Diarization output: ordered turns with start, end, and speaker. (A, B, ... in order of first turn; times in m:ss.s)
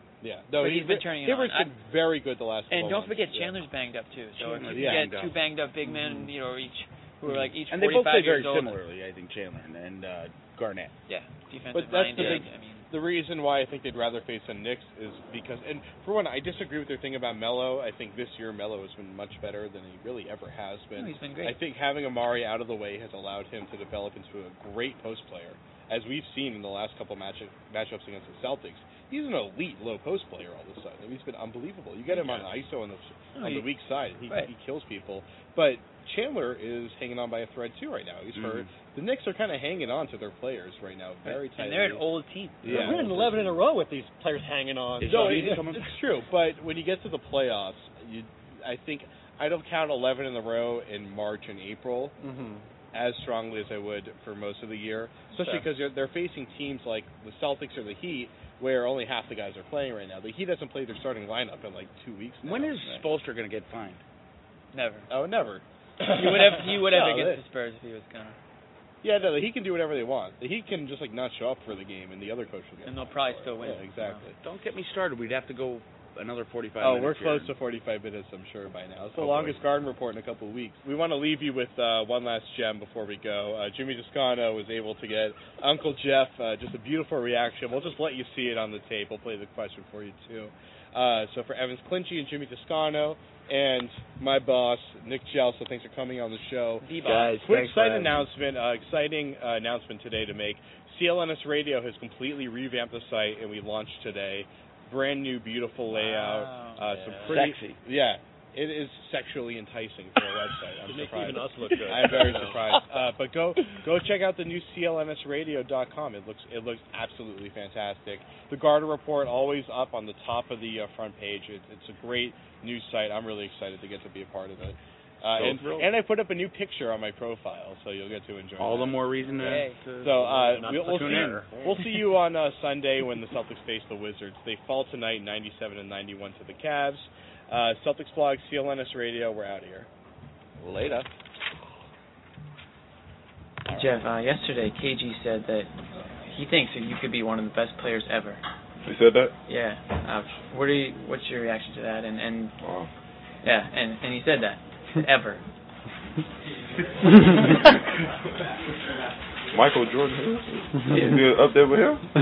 0:00.2-0:03.6 A
0:00.6-0:01.7 B
0:02.7-0:08.8 B
0:04.4-0:05.4 C
0:04.7-0:05.1 A
0:07.7-0:10.9 C
0:11.1-0:12.9 B
0:11.7-0:42.0 A
0:12.2-0:12.5 C
0:21.0-0:21.6 B
0:32.2-0:32.5 C
0:33.4-0:33.7 B
0:38.4-0:38.7 C
0:41.2-0:42.9 B
0:42.6-0:43.0 A
0:42.7-0:45.9 D
0:45.0-0:46.0 C
0:45.2-0:52.2 A
0:52.2-0:52.7 D
0:52.9-1:02.8 A
0:55.3-0:55.6 B
1:02.4-1:04.0 C
1:04.7-1:05.1 B
1:05.1-1:05.6 A
1:06.1-1:08.4 B
1:06.2-1:07.4 A
1:09.0-1:14.4 A
1:12.8-1:14.2 B
1:14.4-1:17.5 C
1:16.8-1:36.9 A
1:19.2-1:19.6 C
1:36.8-1:37.4 B
1:37.0-1:38.3 C
1:37.4-2:09.0 A
1:45.9-1:46.9 B
1:46.9-1:47.4 D
1:47.3-1:47.8 C
1:50.8-1:52.6 D
2:05.4-2:05.9 C
2:08.6-2:11.9 C
2:09.4-2:09.8 B
2:10.0-2:11.0 A
2:10.5-2:12.1 D
2:11.6-2:19.9 A
2:20.6-2:21.1 C
2:23.7-2:24.0 C
2:23.7-2:25.7 E
2:26.3-2:28.4 E
2:28.8-2:29.3 F
2:29.5-2:32.5 E
2:32.6-2:32.9 F
2:33.4-2:35.4 E
2:39.5-2:42.0 F